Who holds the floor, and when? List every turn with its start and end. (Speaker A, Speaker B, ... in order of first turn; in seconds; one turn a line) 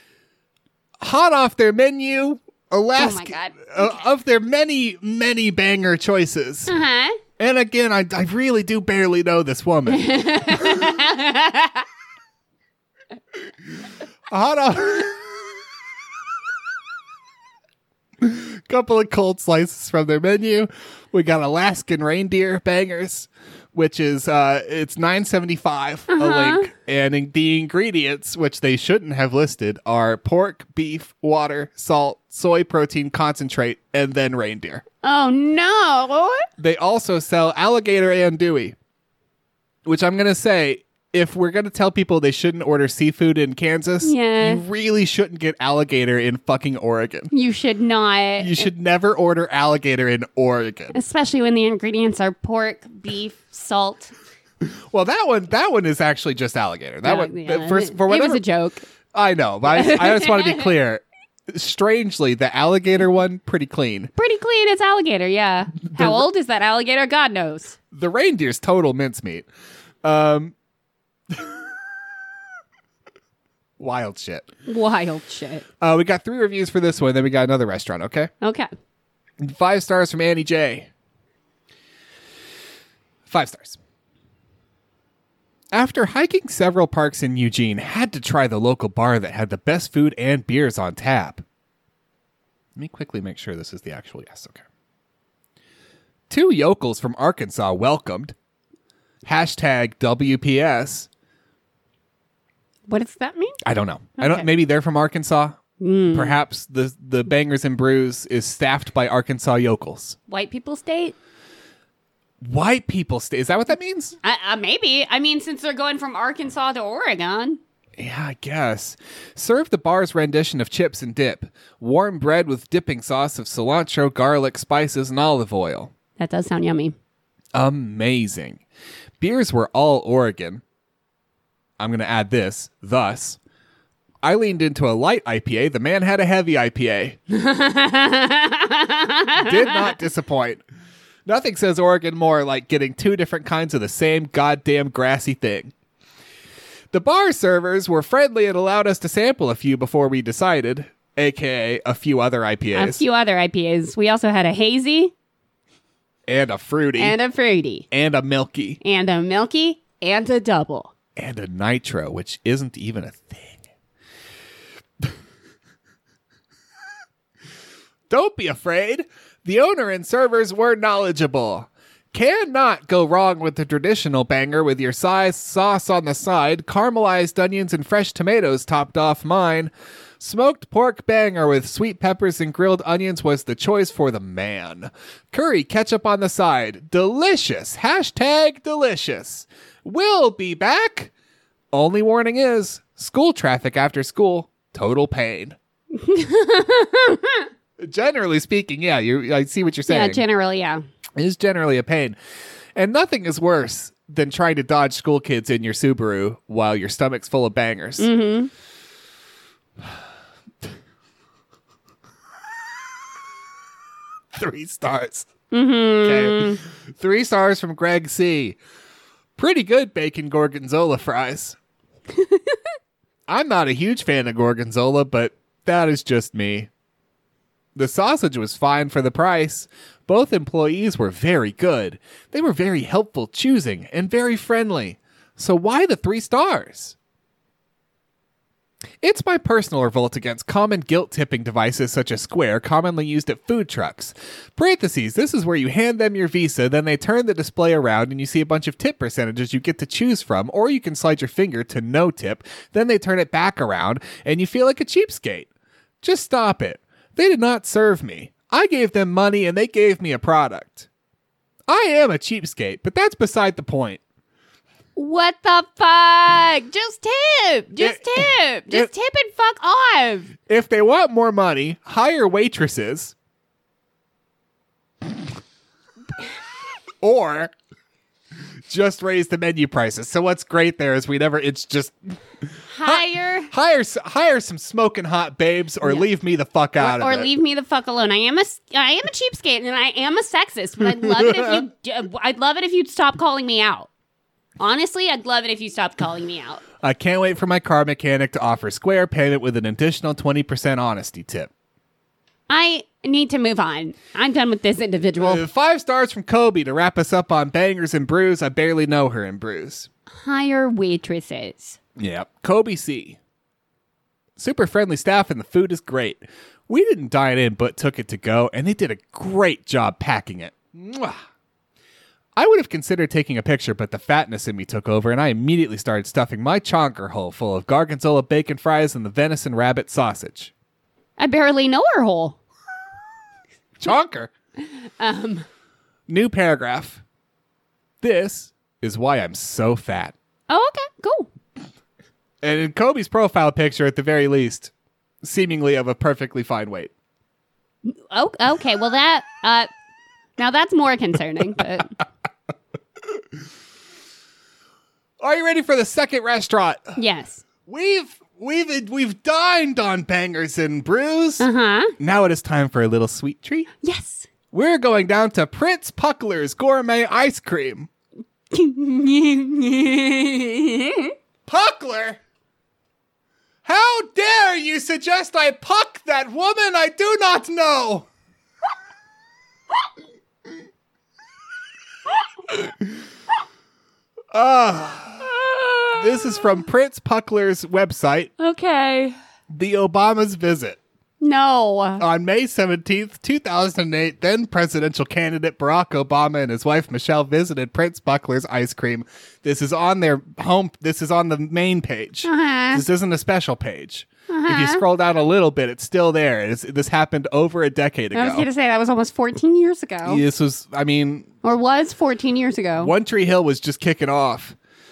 Speaker A: 1.0-6.7
Speaker B: 3.0-4.0
Speaker B: 6.7-7.2
Speaker A: 7.4-11.0
Speaker B: 9.9-11.8
Speaker A: 14.3-15.5
Speaker A: 18.2-34.8
Speaker B: 26.1-26.7
Speaker B: 35.0-36.5
Speaker A: 36.6-38.8
Speaker A: 39.8-47.3
Speaker B: 44.0-44.6
Speaker B: 47.3-48.7
Speaker A: 48.4-51.0
Speaker B: 50.9-54.1
Speaker A: 54.6-58.4
Speaker B: 57.0-58.8
Speaker A: 59.1-64.1
Speaker B: 59.7-60.7
Speaker B: 64.2-67.8
Speaker A: 67.9-69.5
Speaker A: 70.0-70.5
Speaker A: 71.3-71.6
Speaker A: 73.8-74.5
Speaker B: 74.7-75.7
Speaker A: 75.8-78.3
Speaker B: 78.4-78.7
Speaker A: 79.4-80.9
Speaker A: 83.2-83.8
Speaker A: 85.7-91.4
Speaker A: 92.8-94.6
Speaker A: 96.3-98.3
Speaker A: 99.2-101.1
Speaker B: 102.9-103.6
Speaker A: 103.6-105.6
Speaker B: 104.2-104.5
Speaker B: 105.8-106.4
Speaker A: 106.1-110.2
Speaker B: 110.3-111.1
Speaker A: 112.4-114.2
Speaker B: 114.2-117.6
Speaker A: 118.0-125.9
Speaker B: 126.2-126.9
Speaker A: 127.5-128.6
Speaker A: 129.2-130.6
Speaker A: 131.8-133.4
Speaker A: 134.2-137.2
Speaker B: 137.3-139.9
Speaker A: 139.4-140.6
Speaker A: 141.2-145.7
Speaker A: 146.9-153.0
Speaker B: 152.7-155.1
Speaker A: 156.3-157.2
Speaker B: 157.0-157.9
Speaker A: 157.9-158.8
Speaker B: 158.8-160.9
Speaker A: 161.2-163.6
Speaker A: 168.1-191.1
Speaker A: 191.7-195.6
Speaker B: 195.9-197.5
Speaker A: 197.8-200.2
Speaker B: 199.9-200.8
Speaker A: 201.2-202.2
Speaker A: 202.8-208.1
Speaker B: 208.0-208.5
Speaker A: 214.4-215.3
Speaker B: 215.5-216.6
Speaker A: 216.0-218.6
Speaker A: 219.4-221.6
Speaker B: 222.1-222.6
Speaker A: 223.3-226.7
Speaker A: 227.8-236.9
Speaker A: 239.0-255.5
Speaker A: 256.0-260.9
Speaker A: 261.7-264.0
Speaker B: 264.9-270.3
Speaker A: 267.8-268.9
Speaker A: 270.5-273.1
Speaker A: 277.0-277.5
Speaker A: 278.7-287.3
Speaker B: 282.7-283.5
Speaker B: 285.8-286.1
Speaker B: 286.8-293.9
Speaker A: 291.0-291.6
Speaker B: 294.6-296.6
Speaker A: 296.8-301.5
Speaker B: 302.5-305.4
Speaker A: 305.2-309.9
Speaker B: 310.1-311.8
Speaker A: 312.0-313.2
Speaker A: 314.4-321.2
Speaker A: 322.4-330.5
Speaker B: 331.2-332.4
Speaker A: 333.8-334.3
Speaker B: 334.8-335.4
Speaker A: 336.1-337.0
Speaker A: 338.0-340.1
Speaker B: 340.5-341.3
Speaker A: 342.4-344.7
Speaker A: 345.2-346.9
Speaker B: 347.9-349.7
Speaker B: 350.4-352.0
Speaker A: 355.2-357.0
Speaker B: 357.0-357.4
Speaker A: 357.6-361.5
Speaker B: 361.4-361.9
Speaker A: 362.0-363.7
Speaker B: 363.8-364.3
Speaker A: 364.5-367.9
Speaker B: 368.5-371.1
Speaker A: 371.5-372.2
Speaker A: 373.6-378.1
Speaker A: 382.5-382.9
Speaker A: 384.3-385.3
Speaker B: 385.2-386.6
Speaker A: 385.9-388.3
Speaker B: 388.4-389.1
Speaker A: 389.5-390.8
Speaker B: 391.2-392.0
Speaker A: 392.0-408.4
Speaker B: 402.2-402.8
Speaker B: 404.3-404.8
Speaker B: 408.1-410.2
Speaker A: 410.0-411.3
Speaker B: 411.4-412.9
Speaker A: 412.8-414.6